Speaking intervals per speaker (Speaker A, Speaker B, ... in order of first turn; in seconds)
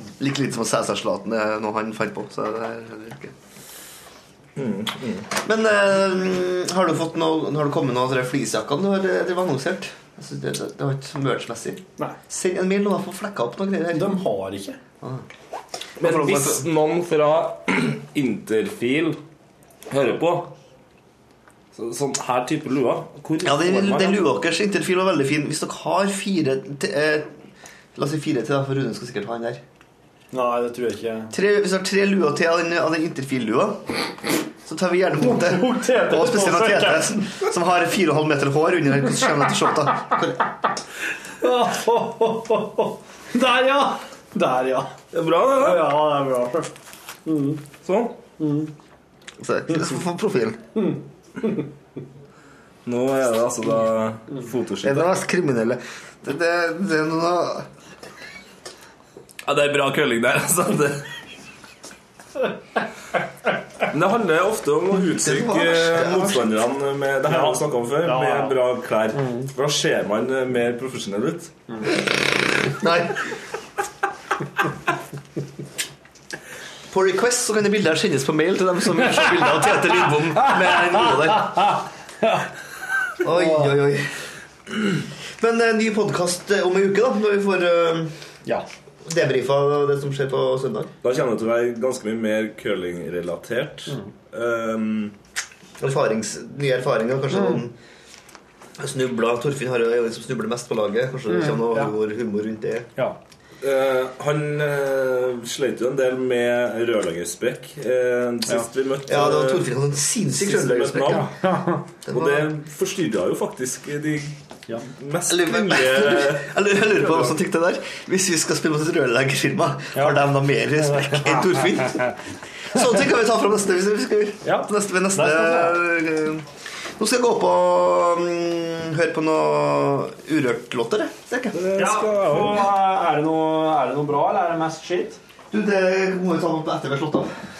Speaker A: 0.2-3.3, 5.4-14.1, 16.0-16.6, 23.4-27.3, 27.9-29.6, 31.3-33.8, 34.6-40.4, 49.4-50.6, 54.8-57.6, 65.2-66.5, 72.8-73.2, 76.9-81.7, 83.2-84.1, 85.4-88.1, 89.1-90.9, 95.8-97.7, 98.8-102.9, 109.0-111.3, 112.0-112.5, 115.3-122.1, 122.7-126.5, 127.0-131.6, 135.5-137.3
Speaker B: 4.5-5.3, 16.0-19.2, 19.9-20.5, 21.7-24.3, 45.1-45.9, 47.8-48.2, 52.9-55.1, 59.4-61.0, 63.9-71.5, 91.0-95.1, 103.6-109.7, 110.2-111.3, 112.1-117.3, 131.5-132.7
Speaker C: 13.9-14.8, 30.3-31.3, 35.2-37.4, 41.4-46.7, 47.2-47.6, 48.4-48.7, 50.8-51.6, 67.3-68.6, 69.1-69.5, 80.6-81.6, 83.3-83.7, 97.3-97.6, 101.3-101.9, 111.1-111.8, 119.9-122.0, 124.4-125.8, 131.7-135.2